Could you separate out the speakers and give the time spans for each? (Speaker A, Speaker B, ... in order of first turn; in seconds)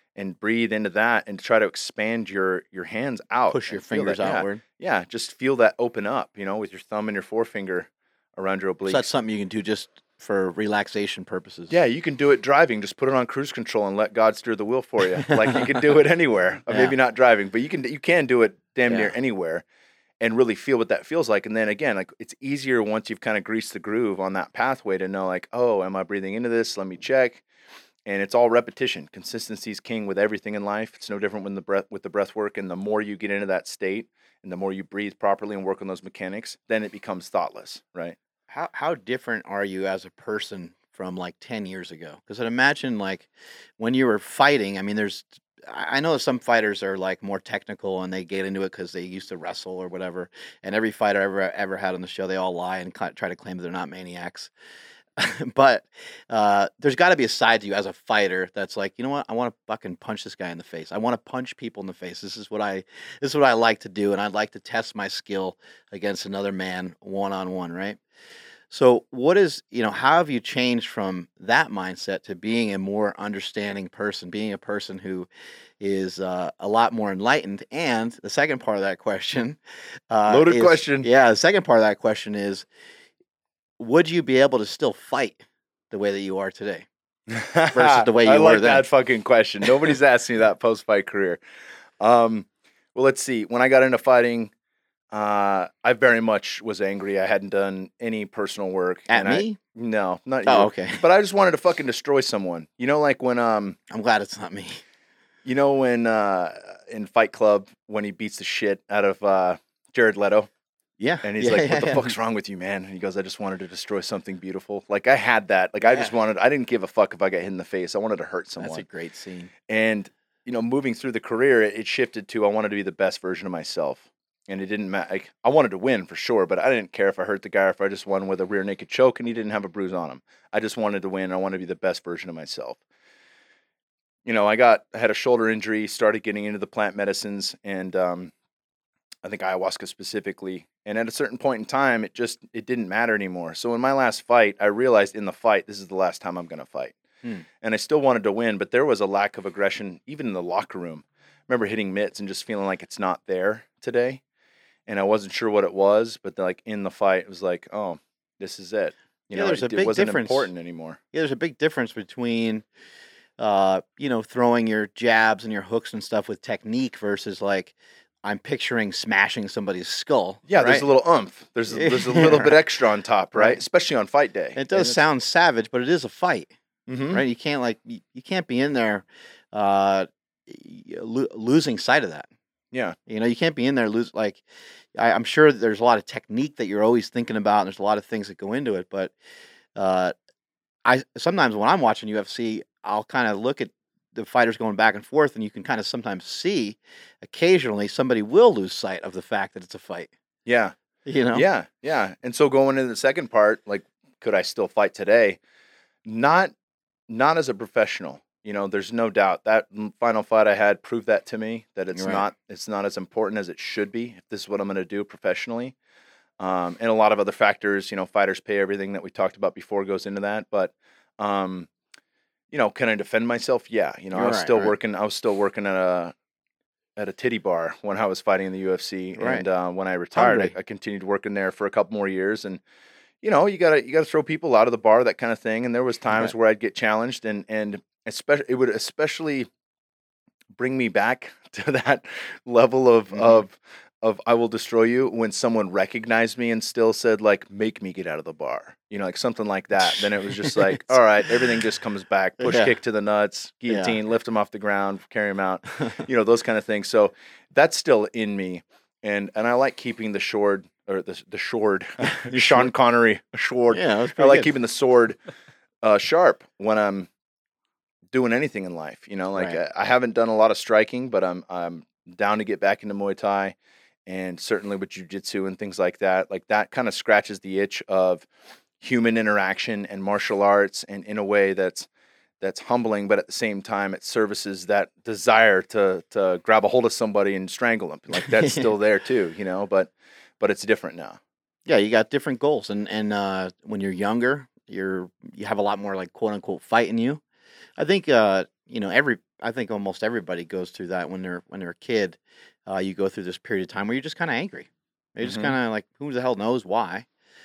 Speaker A: 0.2-9.1, 11.7-19.6, 20.2-27.4, 28.1-38.2, 80.3-81.1, 87.3-91.4, 92.0-94.5, 95.1-103.8, 105.5-110.5, 111.2-118.8, 119.7-132.8, 134.2-138.3, 139.2-147.0, 147.6-154.2, 154.9-161.0, 170.5-175.0, 176.9-177.2, 182.7-183.0, 200.5-200.8, 201.3-205.4, 206.1-206.5, 207.1-215.8, 216.4-221.7, 222.5-226.1, 227.0-232.6, 233.2-239.5, 240.6-265.2, 265.8-267.1, 268.1-273.6, 274.1-278.3, 278.8-281.9, 282.4-291.2, 305.2-305.5
Speaker B: 3.5-4.6, 8.9-11.7, 15.2-15.8, 16.7-16.9, 38.5-54.5, 55.2-68.0, 68.7-75.3, 75.8-79.6, 80.1-82.7, 83.8-86.9, 87.7-88.8, 99.1-99.6, 100.5-101.0, 103.9-104.8, 111.0-112.1, 118.6-119.5, 159.3-160.5, 161.1-162.6, 163.4-167.7, 168.2-170.8, 171.7-172.5, 174.6-176.5, 177.1-182.3, 183.1-184.4, 184.9-189.1, 189.8-190.1, 190.8-200.1, 201.1-201.5, 211.9-212.2, 224.1-224.7, 229.2-229.4, 230.2-230.5, 243.1-243.4, 250.4-250.8, 252.4-252.7, 253.7-254.0, 262.0-262.7, 263.7-264.5, 288.3-288.7, 291.7-297.2, 297.8-307.1